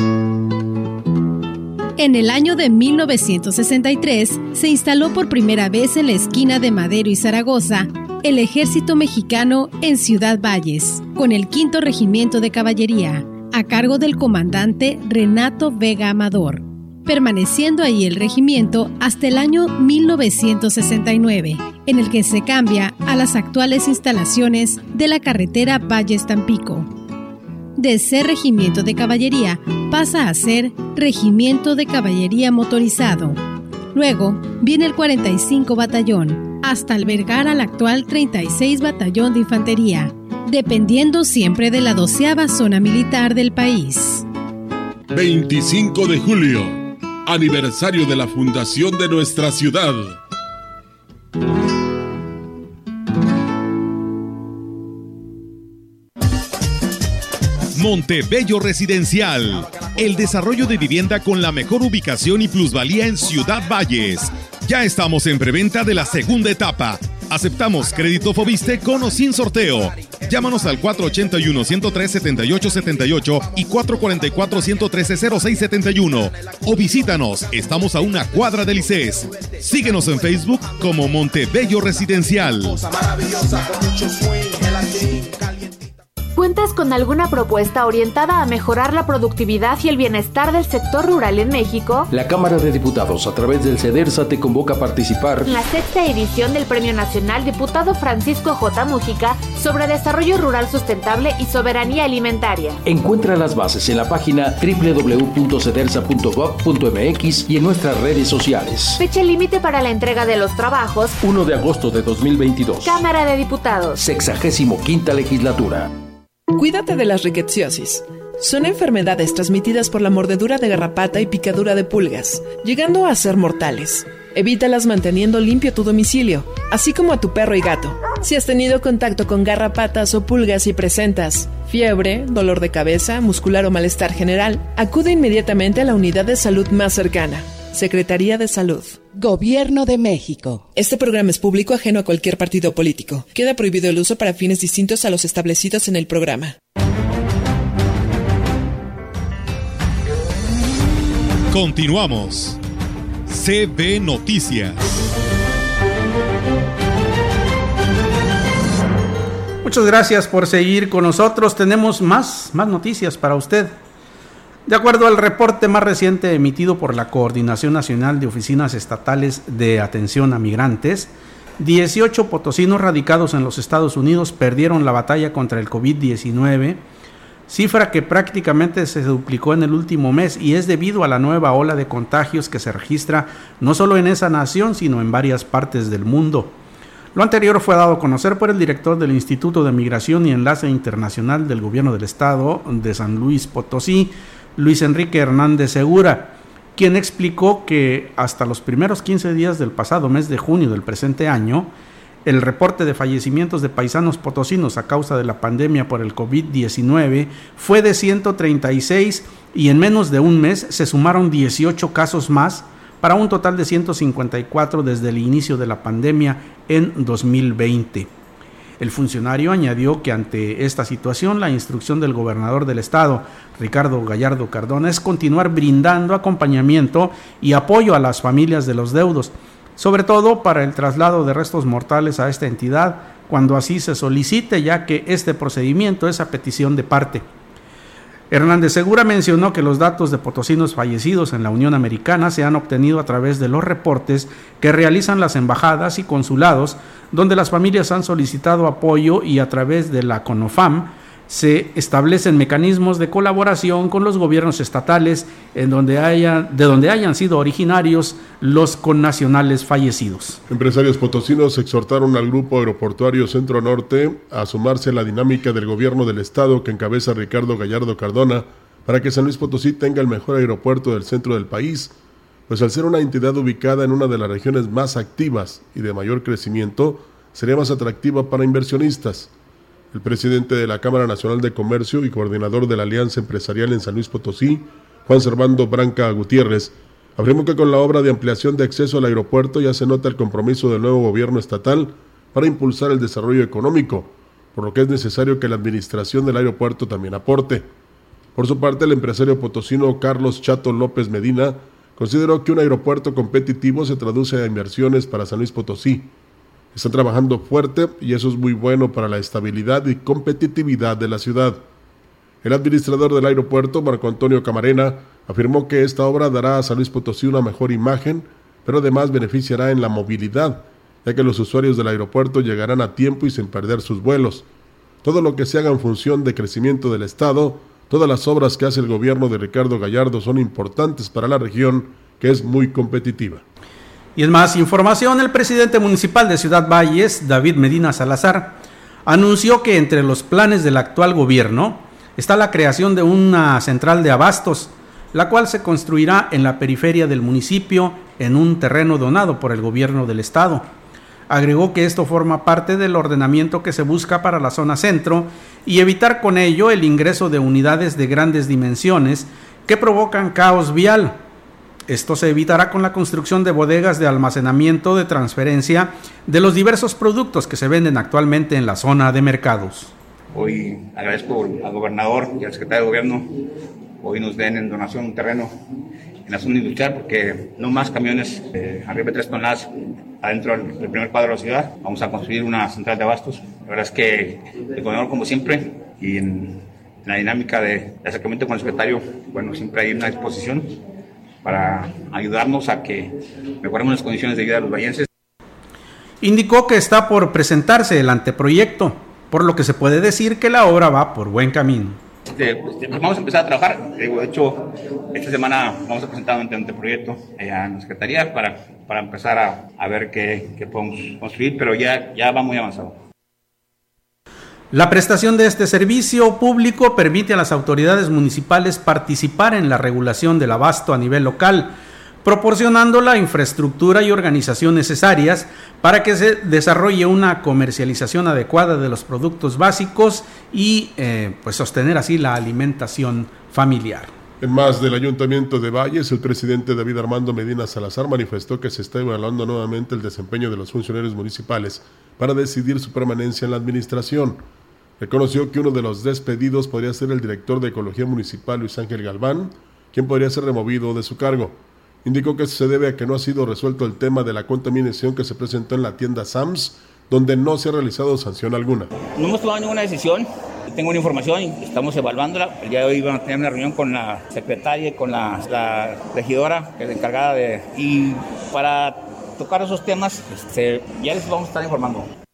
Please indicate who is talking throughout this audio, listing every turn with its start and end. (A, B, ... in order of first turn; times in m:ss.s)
0:02.0-0:26.9 A
0:27.8-0:33.4 A
0:33.9-0:44.2 A
0:45.1-0:50.2 B
0:57.8-1:22.8 C
1:30.3-1:32.0 D
1:32.1-1:35.5 E
1:36.2-1:42.1 D
1:42.8-1:49.0 E
1:49.2-1:51.0 D
1:51.2-1:53.0 E
1:53.3-1:53.8 D
1:54.0-1:55.9 E
1:56.5-2:19.0 F
2:20.8-2:26.6 F
2:31.5-2:32.6 C
2:33.3-2:35.0 C
2:39.6-2:43.8 G
2:44.7-2:56.8 G
2:57.5-3:06.6 G
3:07.1-3:21.7 G
3:22.3-3:38.1 G
3:38.8-3:57.2 G
3:58.3-4:20.4 G
4:20.5-4:31.9 B
4:32.5-4:39.3 B
4:39.9-4:57.7 B
4:58.4-5:06.1 B
5:06.7-5:11.6 B
5:12.4-5:24.5 B
5:25.0-5:33.4 B
5:34.2-5:50.7 G
5:51.3-6:01.2 G
6:01.9-6:09.9 G
6:10.4-6:13.3 H
6:14.0-6:15.5 H
6:16.3-6:19.7 H
6:20.2-6:30.7 H
6:31.5-6:35.0 H
6:36.2-6:42.0 G
6:42.4-6:44.6 H
6:45.2-6:53.0 H
6:54.7-7:14.1 G
7:14.4-7:24.4 B
7:25.0-7:38.9 B
7:39.2-7:52.1 H